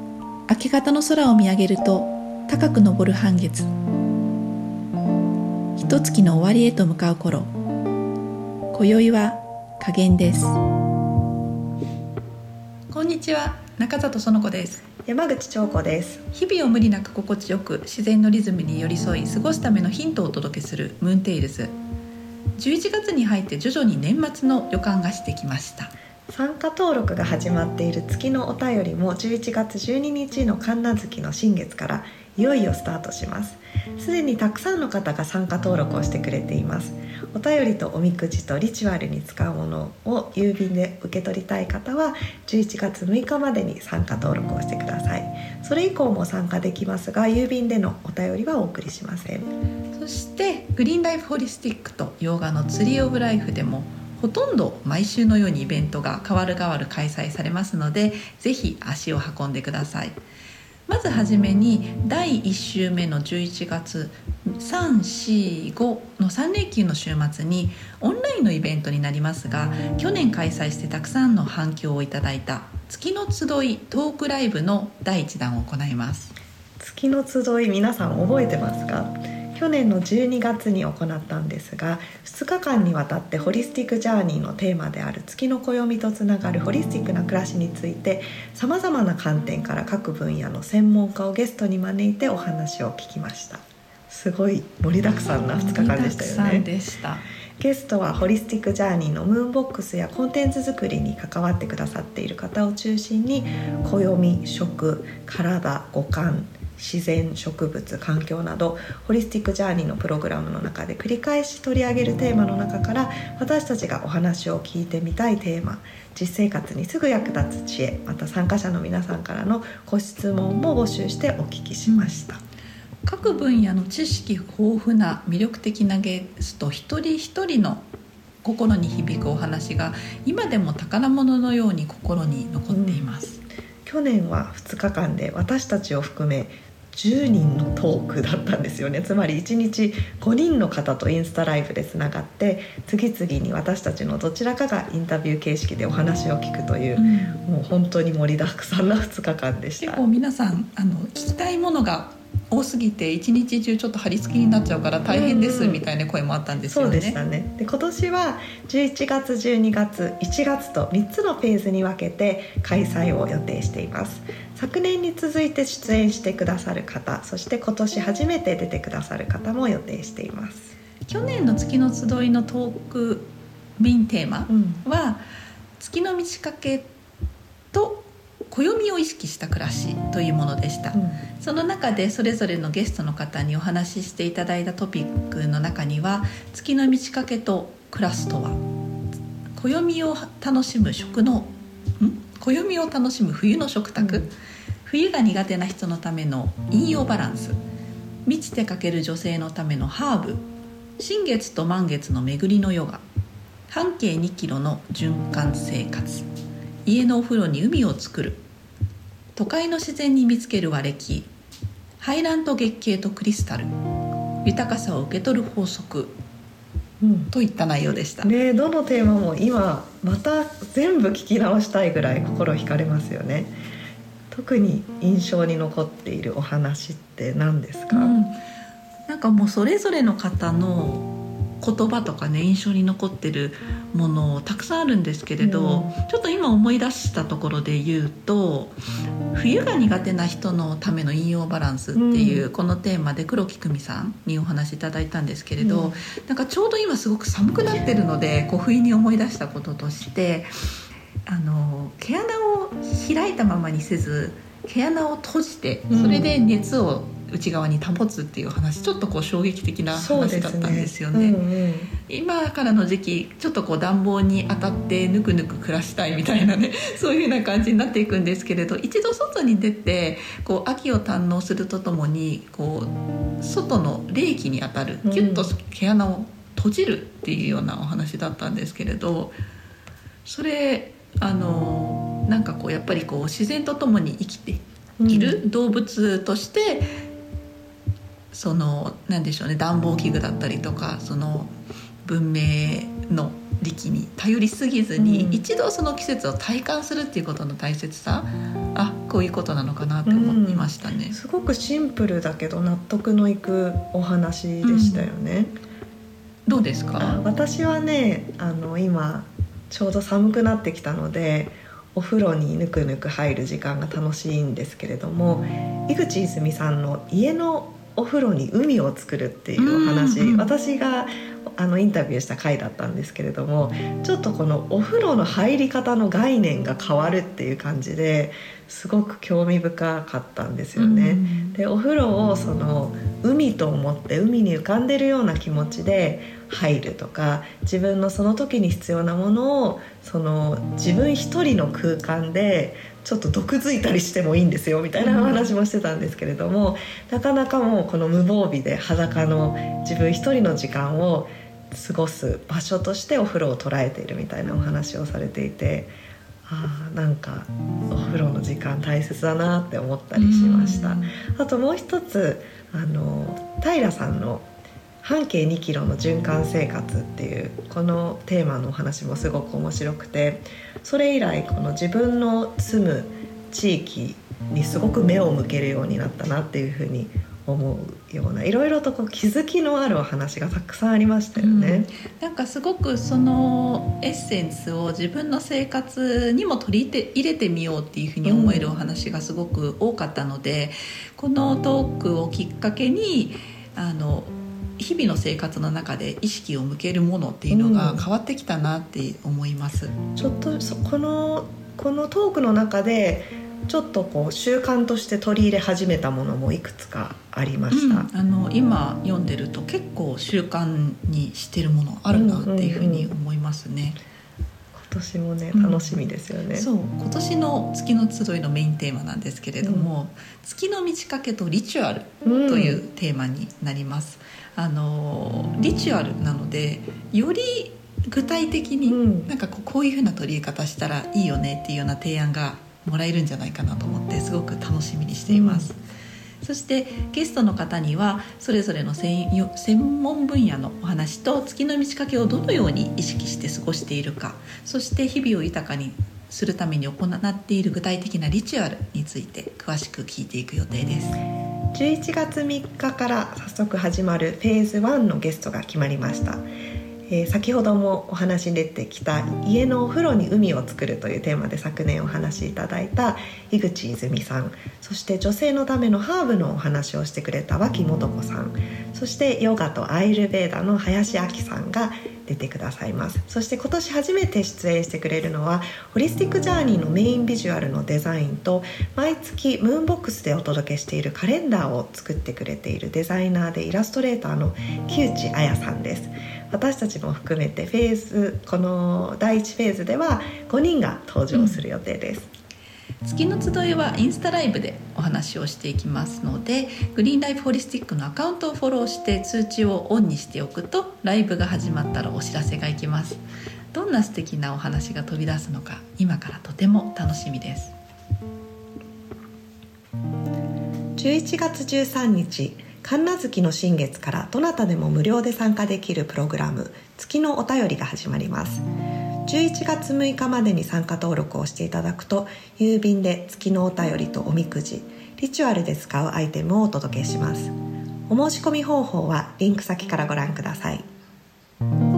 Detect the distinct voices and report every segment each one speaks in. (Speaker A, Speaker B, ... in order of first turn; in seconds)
Speaker A: 0.5-3.7, 5.8-7.5, 8.7-10.6, 12.9-14.9, 16.3-21.7, 22.6-25.9, 49.9-60.1, 60.9-76.3, 95.5-97.2, 121.9-122.2, 123.0-127.8, 128.4-133.4, 146.9-147.4, 149.8-157.2, 171.1-175.2, 175.8-176.9, 177.7-188.6, 189.5-194.3, 194.9-197.6, 198.2-200.4, 201.0-203.0, 203.7-206.3, 206.8-208.4, 209.4-211.3, 212.0-213.7, 214.4-216.2, 217.3-218.3, 227.9-228.3, 229.1-238.7, 239.3-250.5, 251.3-261.4, 262.1-279.3, 280.2-286.9, 288.3-291.5, 292.0-301.2, 304.6-305.1, 306.5-307.2, 319.6-320.5, 330.8-331.6, 345.0-345.6, 360.1-361.2, 381.4-400.0, 407.7-414.0, 415.5-416.0, 416.5-435.8, 436.4-451.2, 491.3-491.6, 493.0-503.2, 503.7-507.8
Speaker B: 15.1-16.2, 26.3-49.5, 76.8-96.7, 97.6-122.4, 132.7-133.1, 133.8-150.0, 155.1-155.8, 156.6-170.7, 174.5-174.8, 180.9-181.2, 194.0-194.3, 217.0-217.3, 218.2-223.5, 224.3-228.2, 235.4-235.9, 241.9-242.5, 245.6-246.0, 255.9-256.3, 259.9-261.9, 275.0-275.5, 285.0-285.4, 295.0-295.4, 300.1-305.5, 306.6-355.9, 356.5-364.5, 365.0-381.9, 388.2-388.7, 397.5-398.1, 400.2-408.1, 412.1-413.1, 414.7-416.7, 419.6-419.9, 422.2-422.8, 428.9-429.3, 435.3-435.7, 451.7-456.4, 457.1-492.3, 511.0-518.6, 519.3-527.5, 528.1-530.9